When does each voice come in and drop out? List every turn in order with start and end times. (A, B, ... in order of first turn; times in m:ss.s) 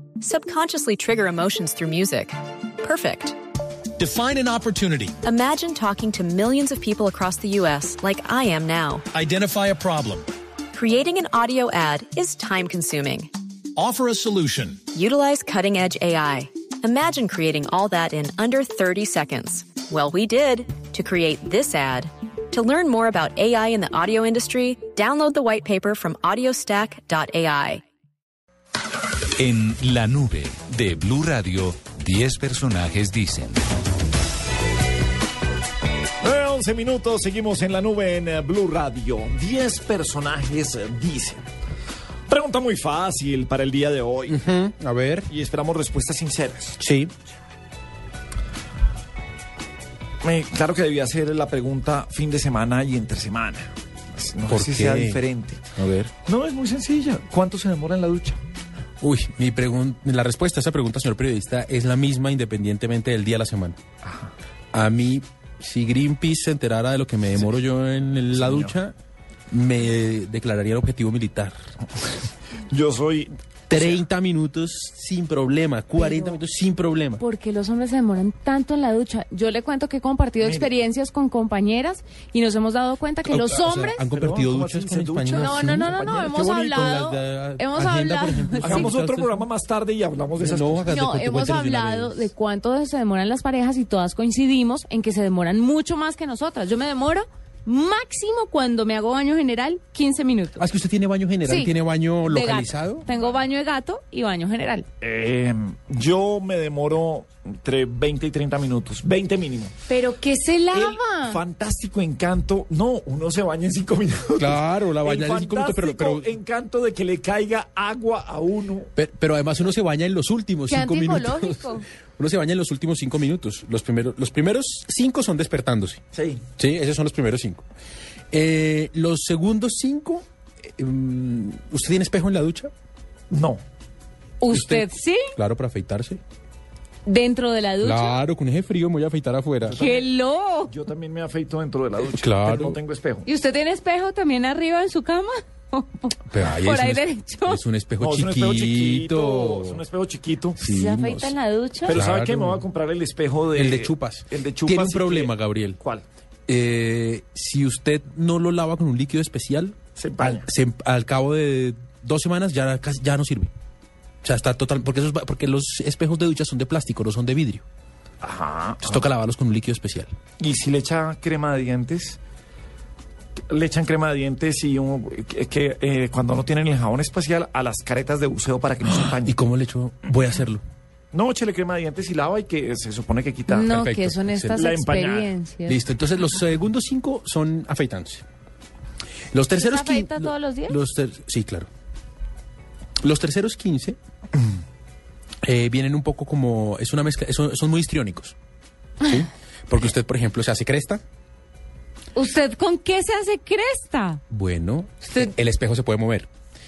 0:00.2-0:03.4 A
0:04.0-0:05.1 B
0:05.2-0:09.0 A
0:09.1-0:10.2 B
0:10.7-0:13.3 A
0:13.8-0:14.8 B
0:14.9-0:27.8 A
0:29.4-0:33.6 C
0:36.2-0:41.4 D
0:42.3-0:44.4 D
0:44.3-0:45.3 E
0:45.3-0:46.8 D
0:46.8-0:47.1 E
0:50.2-0:58.4 D
0:54.4-0:55.2 E
0:55.8-0:56.1 E
0:59.0-1:03.8 E
1:04.7-1:08.9 E
1:08.3-1:08.8 D
1:09.5-1:11.5 E
1:12.7-1:14.0 D
1:13.7-1:17.2 E
1:16.0-1:16.4 F
1:17.2-1:24.0 F
1:20.4-1:20.7 D
1:23.2-1:29.5 E
1:24.1-1:27.0 D
1:25.4-1:28.9 F
1:28.6-1:30.9 D
1:30.4-1:32.3 E
1:30.9-1:40.6 F
1:40.6-1:43.0 E
1:41.4-1:41.7 F
1:42.2-1:44.9 F
1:45.0-1:49.7 D
1:49.9-1:51.4 F
1:50.7-1:58.9 D
1:54.4-1:56.4 E
1:59.0-2:01.6 E
2:00.7-2:01.8 F
2:02.2-2:06.0 E
2:06.1-2:06.4 D
2:06.6-2:07.6 E
2:08.3-2:10.2 E
2:10.8-2:12.7 E
2:13.3-2:13.6 D
2:14.4-2:15.3 F
2:14.5-2:16.2 E
2:17.0-2:18.2 F
2:17.8-2:19.8 E
2:19.7-2:20.1 D
2:19.7-2:20.7 F
2:20.7-2:23.2 D
2:22.1-2:22.8 E
2:23.2-2:27.6 F
2:26.3-2:29.8 E
2:28.0-2:30.6 D
2:30.6-2:31.3 E
2:30.6-2:32.0 F
2:31.8-2:36.0 D
2:31.9-2:32.6 E
2:33.5-2:35.8 E
2:36.5-2:43.5 E
2:40.0-2:40.5 D
2:44.2-2:47.6 E
2:48.2-2:49.0 D
2:48.8-2:50.1 E
2:50.4-2:52.2 D
2:53.5-2:59.4 D
2:59.2-3:00.6 E
3:01.1-3:03.7 D
3:03.5-3:05.8 F
3:03.6-3:04.7 E
3:04.6-3:05.3 D
3:05.6-3:08.2 E
3:09.3-3:11.7 E
3:09.5-3:10.8 F
3:13.0-3:14.0 E
3:15.4-3:18.3 E
3:19.0-3:21.0 E
3:22.1-3:24.2 F
3:24.3-3:26.3 E